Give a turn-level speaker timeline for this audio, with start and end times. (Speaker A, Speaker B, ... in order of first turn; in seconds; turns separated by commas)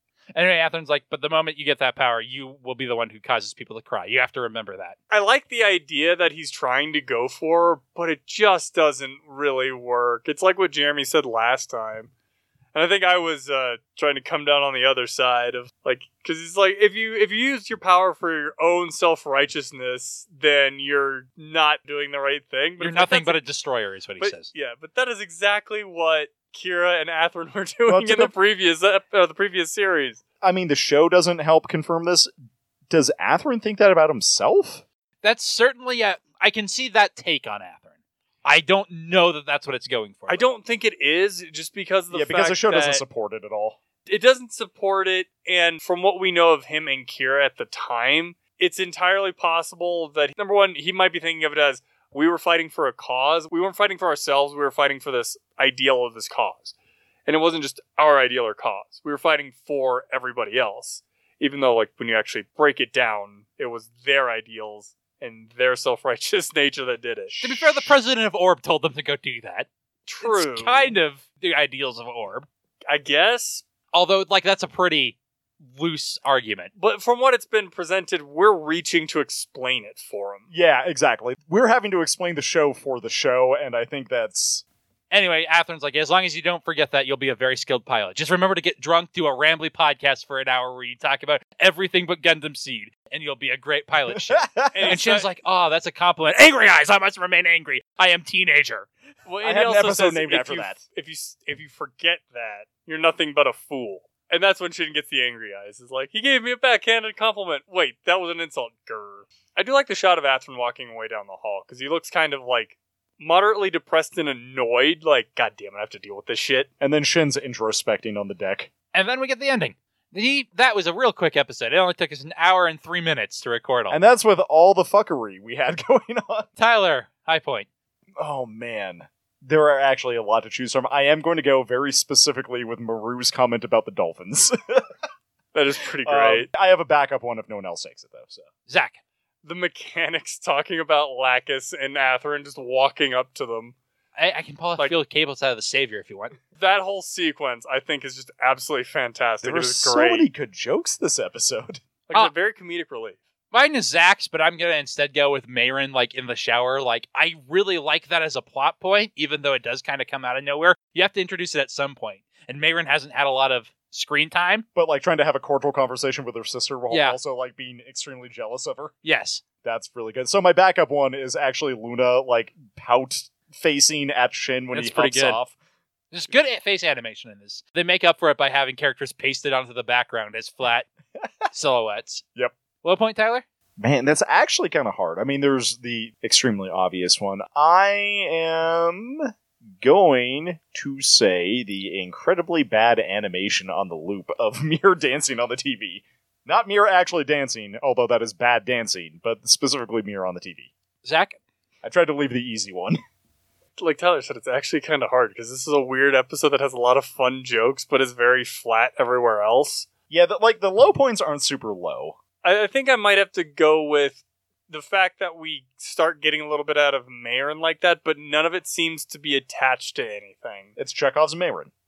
Speaker A: 0.3-5.0, Speaker B: 5.1-12.1, Speaker B: 12.7-23.4, Speaker A: 22.8-24.5, Speaker B: 24.2-30.2, Speaker C: 27.9-28.3, Speaker C: 30.4-32.3, Speaker C: 32.9-34.8, Speaker A: 35.2-37.9, Speaker A: 38.4-40.5, Speaker B: 40.3-43.0, Speaker C: 42.1-43.8, Speaker B: 44.1-56.7, Speaker B: 57.3-67.3, Speaker C: 67.3-67.9, Speaker A: 67.4-69.7, Speaker B: 70.1-70.9, Speaker A: 70.2-72.5, Speaker B: 72.9-73.6, Speaker A: 73.9-75.2, Speaker A: 75.7-76.7, Speaker B: 76.8-80.5, Speaker C: 80.5-84.6, Speaker A: 85.1-98.9, Speaker C: 94.1-95.0, Speaker B: 94.7-95.3, Speaker B: 99.3-116.7, Speaker C: 99.4-100.8, Speaker C: 116.8-118.7, Speaker A: 118.9-124.0, Speaker C: 123.9-126.5, Speaker A: 126.6-127.7, Speaker C: 128.2-134.9, Speaker B: 135.5-136.5, Speaker C: 136.1-138.5, Speaker A: 138.7-139.0, Speaker B: 139.4-143.8, Speaker A: 144.2-146.4, Speaker B: 146.6-150.3, Speaker C: 149.4-151.8, Speaker B: 152.1-153.2, Speaker A: 153.5-164.7, Speaker C: 164.7-168.9, Speaker A: 166.9-167.2, Speaker A: 169.0-169.4, Speaker C: 169.6-175.5, Speaker A: 174.7-175.4, Speaker A: 176.1-180.9, Speaker A: 181.5-182.2, Speaker A: 182.8-183.4, Speaker C: 183.8-200.7, Speaker A: 201.0-201.4, Speaker C: 201.8-203.0, Speaker B: 203.8-209.9, Speaker C: 210.1-212.2, Speaker B: 212.4-220.7, Speaker C: 220.8-221.7